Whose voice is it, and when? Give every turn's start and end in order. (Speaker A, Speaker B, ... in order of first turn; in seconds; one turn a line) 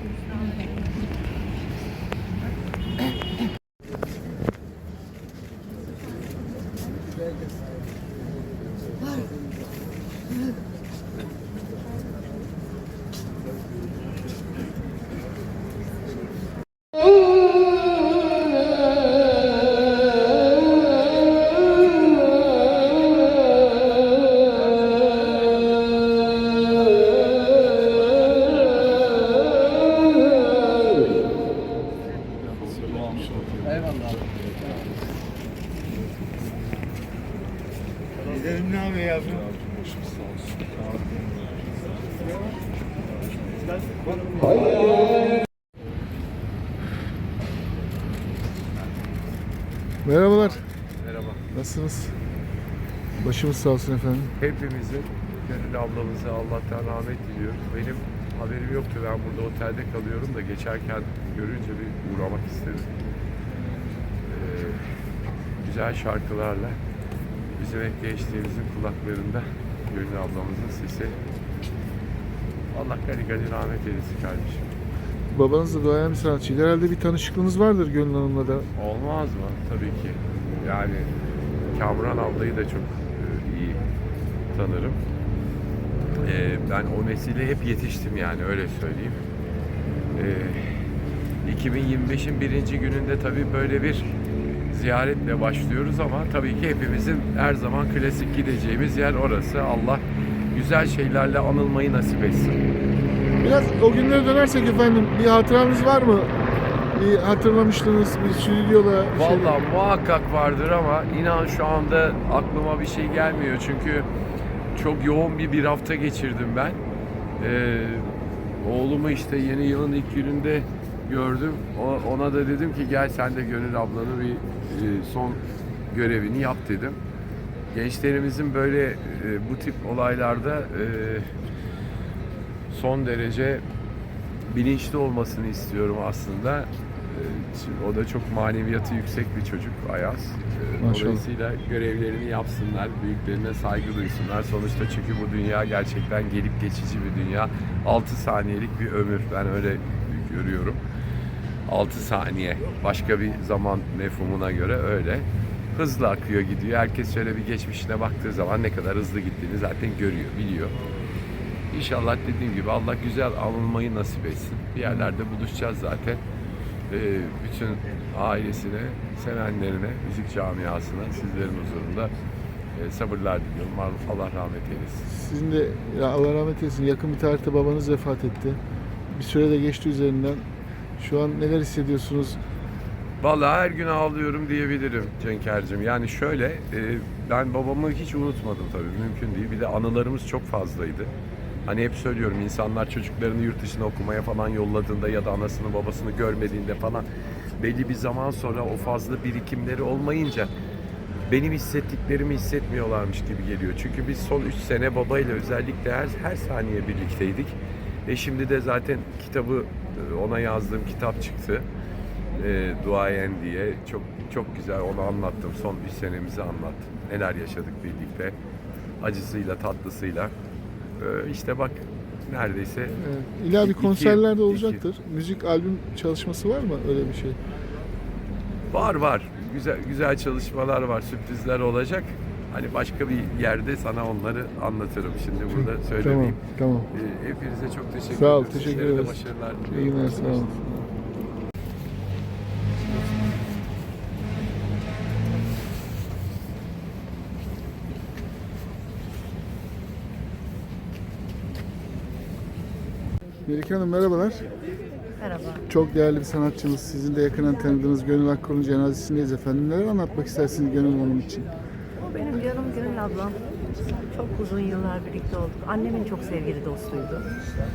Speaker A: 50.0-50.6
Speaker B: 50.4-51.4
Speaker A: 51.5-52.1
Speaker A: 53.2-54.3
Speaker B: 54.4-62.9
Speaker B: 64.3-64.8
Speaker B: 65.6-66.8
Speaker B: 67.6-71.2
Speaker B: 72.7-74.7
Speaker A: 75.3-78.7
Speaker B: 78.8-81.1
Speaker B: 81.7-83.8
Speaker B: 84.5-85.0
Speaker B: 86.2-89.2
Speaker B: 90.2-90.7
Speaker B: 91.4-94.1
Speaker B: 94.7-100.0
Speaker B: 100.5-102.6
Speaker A: 103.4-106.3
Speaker A: 106.9-109.5
Speaker B: 109.1-114.1
Speaker B: 114.8-116.8
Speaker B: 117.4-118.1
Speaker B: 118.6-127.0
Speaker B: 127.7-131.3
Speaker B: 132.7-133.6
Speaker B: 134.5-150.8
Speaker A: 140.8-141.2
Speaker B: 151.7-160.8
Speaker B: 161.7-166.2
Speaker B: 166.9-172.1
Speaker B: 172.8-175.1
Speaker A: 175.1-178.6
Speaker A: 179.1-180.4
Speaker A: 181.0-182.4
Speaker B: 183.2-191.1
Speaker B: 191.7-197.1
Speaker B: 197.6-200.5
Speaker B: 201.3-207.6
Speaker B: 208.1-211.7
Speaker B: 212.3-218.3
Speaker B: 219.0-220.3
Speaker B: 221.0-223.0
Speaker A: 223.0-227.4
Speaker B: 223.6-224.8
Speaker B: 228.7-236.4
Speaker A: 235.5-236.9
Speaker B: 236.9-240.5
Speaker A: 238.1-239.2
Speaker A: 239.7-240.9
Speaker A: 253.5-254.5
Speaker C: 255.2-255.7
Speaker A: 255.7-261.5
Speaker C: 262.0-263.4
Speaker C: 264.1-267.3